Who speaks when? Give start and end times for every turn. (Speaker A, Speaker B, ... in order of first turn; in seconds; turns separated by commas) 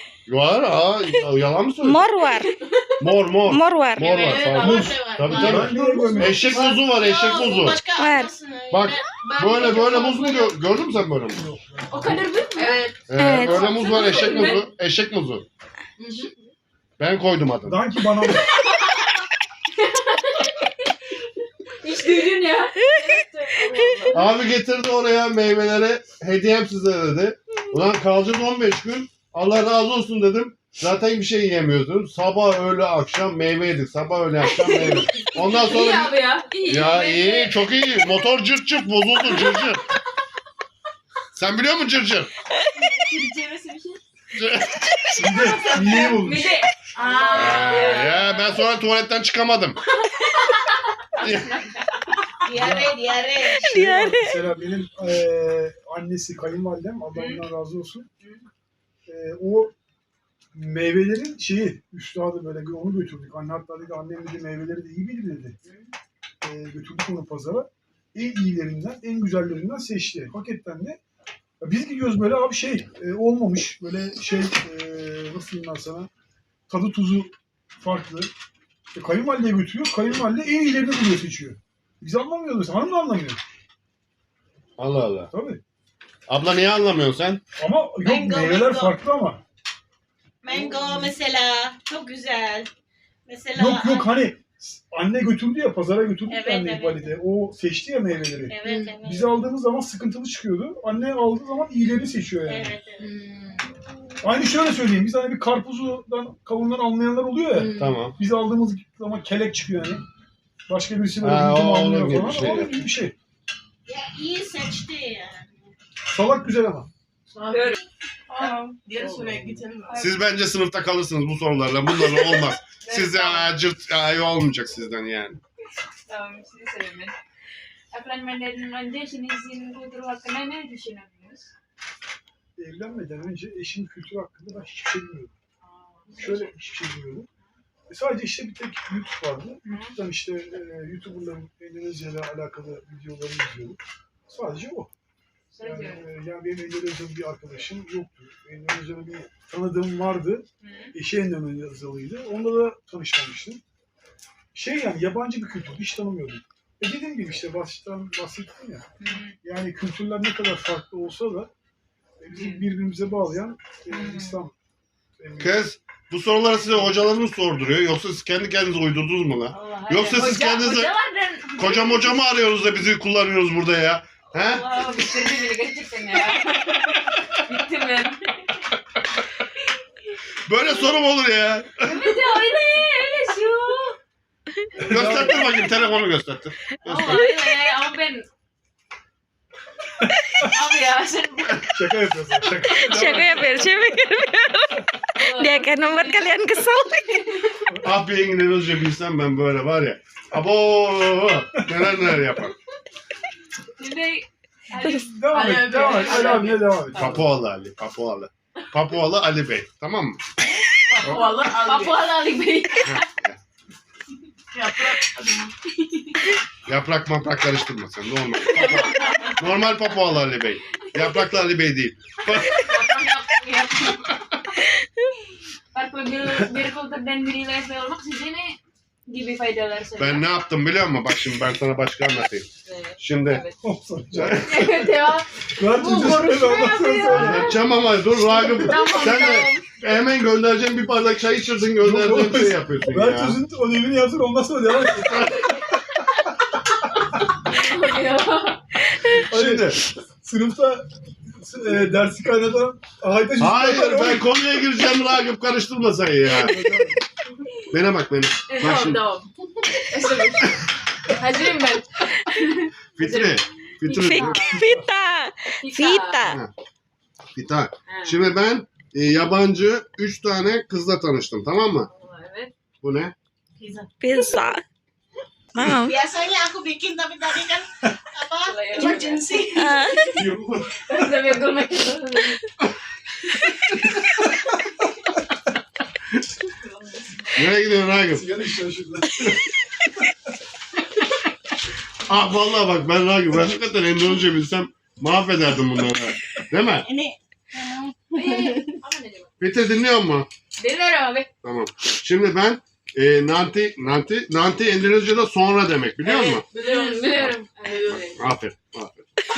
Speaker A: 0.3-2.0, Speaker B: 1.8-2.5, Speaker C: 2.6-2.9, Speaker A: 3.0-7.8, Speaker B: 3.5-4.3, Speaker C: 4.1-6.5, Speaker D: 4.5-6.7, Speaker E: 6.4-10.6, Speaker B: 8.0-8.3, Speaker A: 8.7-11.4, Speaker D: 11.4-12.2, Speaker F: 11.9-12.8, Speaker C: 12.5-13.6, Speaker A: 13.1-15.5, Speaker B: 13.1-13.7, Speaker F: 13.4-14.7, Speaker C: 16.0-16.3, Speaker A: 17.0-17.8, Speaker D: 17.6-18.5, Speaker F: 19.8-20.9, Speaker F: 21.8-24.4, Speaker A: 24.1-36.1, Speaker F: 34.4-37.6, Speaker A: 36.6-39.9, Speaker A: 41.3-42.3, Speaker F: 42.8-44.0, Speaker A: 44.4-44.9, Speaker D: 45.2-46.6, Speaker F: 45.3-48.7, Speaker C: 47.0-48.1, Speaker A: 47.3-49.8, Speaker F: 50.1-52.2, Speaker A: 51.2-51.5, Speaker E: 52.4-53.6, Speaker D: 52.5-58.1, Speaker B: 53.7-54.4, Speaker F: 57.1-57.5, Speaker D: 59.1-59.7, Speaker D: 60.5-65.6, Speaker F: 65.6-65.9, Speaker D: 66.4-71.0, Speaker D: 71.6-76.1, Speaker D: 76.7-78.3, Speaker D: 78.9-83.4, Speaker A: 84.8-85.3, Speaker D: 85.3-85.6, Speaker A: 86.3-87.4, Speaker D: 87.6-89.4, Speaker E: 88.0-89.0, Speaker E: 90.4-92.7, Speaker D: 90.5-91.1, Speaker E: 93.3-94.1, Speaker D: 93.5-102.8, Speaker E: 96.3-97.1, Speaker E: 98.5-99.4, Speaker C: 98.6-99.0, Speaker E: 102.5-103.1, Speaker C: 103.0-103.7, Speaker D: 104.2-110.0, Speaker C: 107.5-108.0, Speaker A: 107.8-108.2, Speaker D: 110.7-113.2, Speaker A: 111.2-112.9, Speaker E: 113.9-115.6, Speaker D: 116.1-116.9, Speaker C: 117.3-120.0, Speaker F: 117.5-117.8, Speaker E: 118.4-118.7, Speaker D: 118.9-119.6, Speaker F: 119.9-120.2, Speaker A: 119.9-125.4, Speaker F: 122.8-123.5, Speaker F: 126.1-127.2, Speaker F: 127.9-131.5, Speaker D: 132.6-135.3, Speaker F: 135.6-136.5, Speaker D: 136.2-137.3, Speaker D: 137.9-144.9, Speaker F: 139.7-140.0, Speaker F: 145.5-146.1, Speaker D: 145.6-153.6, Speaker F: 150.6-150.9, Speaker D: 154.5-161.5, Speaker F: 159.0-159.4, Speaker D: 162.2-164.5, Speaker F: 162.3-162.7, Speaker F: 163.9-164.4, Speaker D: 165.2-165.6, Speaker A: 165.4-170.9, Speaker F: 169.5-172.1, Speaker A: 171.6-175.0, Speaker F: 174.4-178.4, Speaker A: 180.5-182.2, Speaker F: 181.9-184.0, Speaker D: 184.8-185.4, Speaker A: 184.9-187.3, Speaker F: 186.9-188.3, Speaker F: 190.4-191.7, Speaker D: 191.7-193.6, Speaker F: 192.7-193.5, Speaker B: 192.8-197.3, Speaker F: 195.2-197.4, Speaker A: 197.8-202.5, Speaker F: 203.8-207.2, Speaker D: 204.9-207.1, Speaker C: 205.3-207.2, Speaker A: 206.9-210.2, Speaker C: 210.9-212.1, Speaker F: 211.0-213.1, Speaker A: 212.8-213.4, Speaker C: 214.5-215.5, Speaker A: 216.7-222.7, Speaker C: 218.5-219.4, Speaker F: 220.9-221.3, Speaker F: 222.6-224.4, Speaker F: 225.7-230.4, Speaker A: 230.0-233.4, Speaker F: 232.7-233.6, Speaker D: 233.6-235.0, Speaker A: 234.2-234.8, Speaker F: 234.5-235.3, Speaker D: 235.5-237.6, Speaker C: 235.8-236.9, Speaker F: 235.8-237.6, Speaker A: 237.1-243.4, Speaker D: 238.4-239.0, Speaker F: 238.5-239.7, Speaker D: 241.7-245.9, Speaker A: 245.0-245.3, Speaker F: 245.4-246.2, Speaker F: 246.9-248.8, Speaker A: 249.3-249.8, Speaker D: 249.3-250.9, Speaker D: 251.4-254.3, Speaker A: 253.4-256.6, Speaker D: 256.3-257.0, Speaker A: 257.7-259.1, Speaker F: 258.5-264.8, Speaker A: 263.0-264.3, Speaker B: 264.0-266.4, Speaker D: 264.1-264.9, Speaker F: 265.6-266.2, Speaker A: 266.2-266.5, Speaker A: 267.4-271.9, Speaker F: 267.9-268.2, Speaker F: 271.9-272.5, Speaker A: 272.8-273.1, Speaker E: 273.6-274.3, Speaker B: 274.0-274.6, Speaker B: 275.6-275.9, Speaker E: 275.6-280.0, Speaker F: 278.5-280.2, Speaker B: 279.6-280.2, Speaker D: 280.1-281.4, Speaker F: 280.8-282.5, Speaker A: 287.4-288.3, Speaker D: 288.1-289.4, Speaker A: 292.1-296.9, Speaker E: 296.8-298.7, Speaker F: 298.1-299.3, Speaker A: 299.4-300.3, Speaker F: 300.6-301.3, Speaker A: 301.4-306.4, Speaker C: 306.0-308.2, Speaker F: 306.5-308.2, Speaker A: 307.9-309.1